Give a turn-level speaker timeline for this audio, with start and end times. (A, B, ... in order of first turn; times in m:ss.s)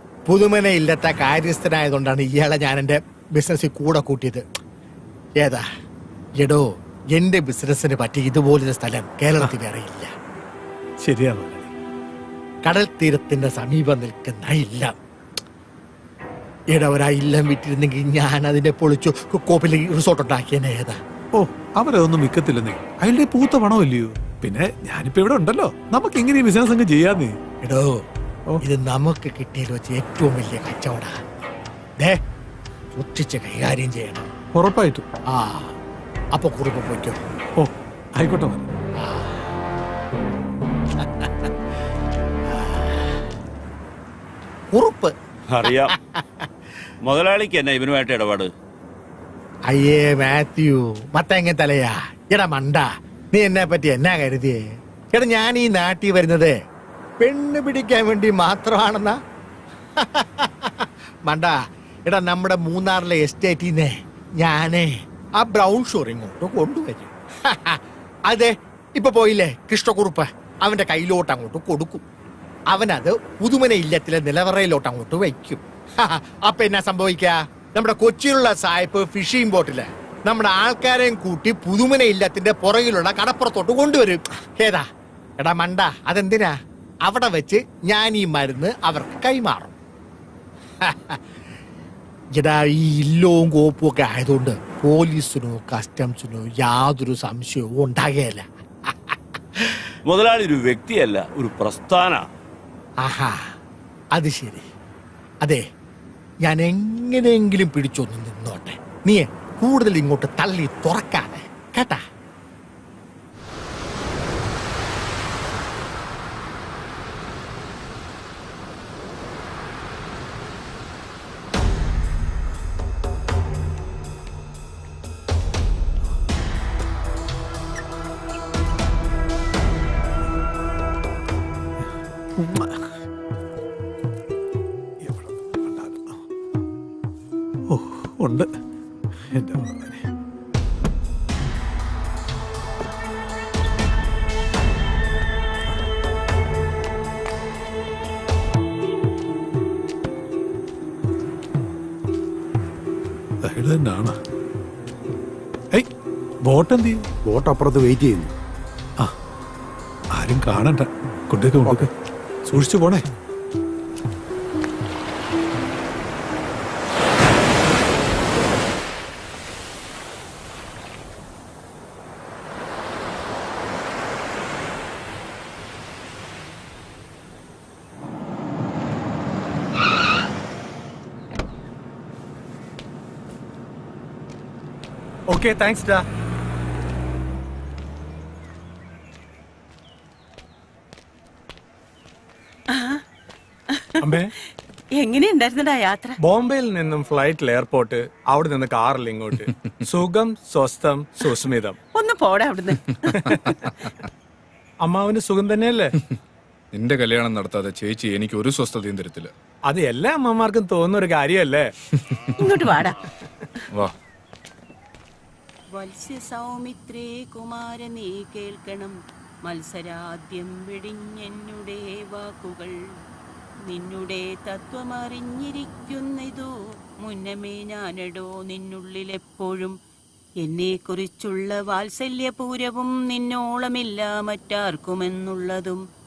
0:00.3-0:04.4 A
0:06.4-0:10.1 A
0:11.0-0:11.7 B
0:12.6-0:14.9 A
0:16.7-0:21.0 A
0:21.3-0:27.4 B
0:27.6-0:27.9 A
0:28.6-0:31.2 A
0:33.0-0:34.3 A
0:34.6-0:35.0 B
0:35.3-0:35.7 A
0:36.4-0:37.2 A
0:37.6-0:38.7 B
0:39.0-0:39.5 A
0:41.0-0:41.5 A
0:42.6-0:43.0 A
0:44.7-0:46.5 A
0:45.5-0:45.9 C
0:47.0-0:48.5 C
0:49.7-0:54.6 A
0:55.1-0:56.6 A
0:57.2-0:59.2 A
1:00.0-1:12.0 A
1:12.7-1:24.8 A
1:25.4-1:26.5 A
1:27.0-1:29.8 A
1:30.8-1:31.2 A
1:32.4-1:39.9 A
1:40.0-1:42.2 C
1:43.0-1:43.4 A
1:44.2-1:44.6 A
1:46.4-1:52.0 A
2:12.4-2:12.9 B
2:15.0-2:16.2 B
2:17.7-2:18.5 B
2:19.3-2:20.0 B
2:33.4-2:34.2 B
2:36.4-2:37.1 B
2:37.3-2:38.3 A
2:40.2-2:41.9 B
2:42.5-2:43.1 B
3:05.3-3:06.1 D
3:12.8-3:13.0 E
3:13.7-3:14.2 E
3:14.0-3:14.3 D
3:15.0-3:16.2 E
3:16.2-3:21.8 D
3:19.4-3:19.7 F
3:22.0-3:23.1 E
3:23.1-3:23.9 F
3:24.8-3:25.9 D
3:26.7-3:29.3 F
3:29.6-3:31.7 D
3:32.4-3:33.0 E
3:35.7-3:42.8 E
3:43.7-3:49.8 E
3:50.4-3:55.8 E